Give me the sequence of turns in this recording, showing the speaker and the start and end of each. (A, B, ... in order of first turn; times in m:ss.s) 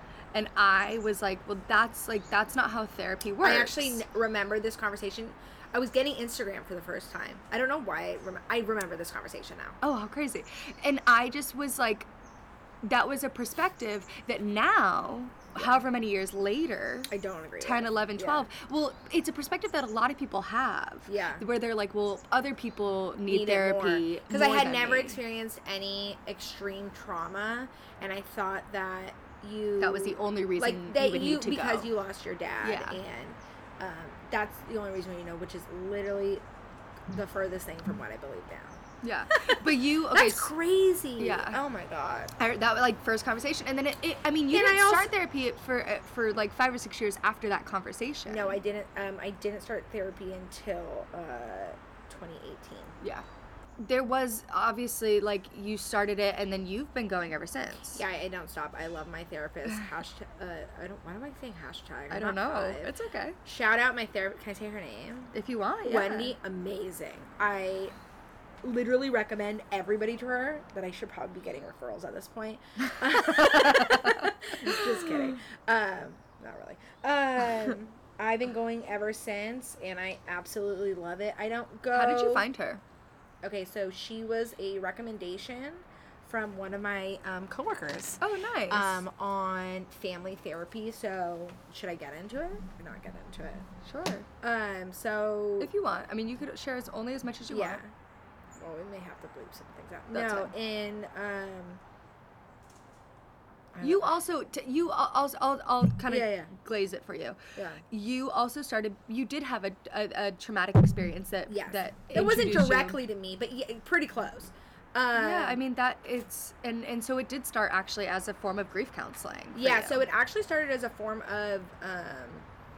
0:00.3-0:04.0 A
0:03.4-0:09.8 B
0:09.8-0:12.1 A
0:12.8-0:25.2 A
0:15.6-0:15.8 B
0:17.1-0:18.5 B
0:21.1-0:21.4 B
0:23.3-0:36.4 B
0:29.8-0:31.9 A
0:32.6-0:33.0 A
0:37.1-0:38.8 B
0:39.0-0:40.5 A
0:39.3-0:42.3 B
0:41.2-0:41.6 A
0:42.4-0:48.6 A
0:44.5-0:45.1 B
0:48.3-0:53.0 B
0:53.0-0:53.2 A
0:53.8-0:58.0 A
0:57.9-1:02.9 B
1:02.1-1:03.4 A
1:03.4-1:05.3 B
1:05.3-1:06.3 A
1:05.8-1:07.9 B
1:08.6-1:22.5 B
1:13.1-1:15.4 A
1:21.9-1:22.8 A
1:23.4-1:33.7 B
1:28.2-1:29.0 A
1:33.8-1:34.3 A
1:34.4-1:35.7 B
1:35.6-1:37.8 A
1:37.5-1:37.9 B
1:38.6-1:41.8 B
1:40.1-1:40.5 A
1:43.7-1:44.2 B
1:43.8-1:47.4 A
1:46.1-1:46.5 B
1:47.5-1:47.8 B
1:47.9-1:53.0 A
1:51.5-1:55.6 B
1:55.1-2:00.0 A
1:59.5-2:02.5 B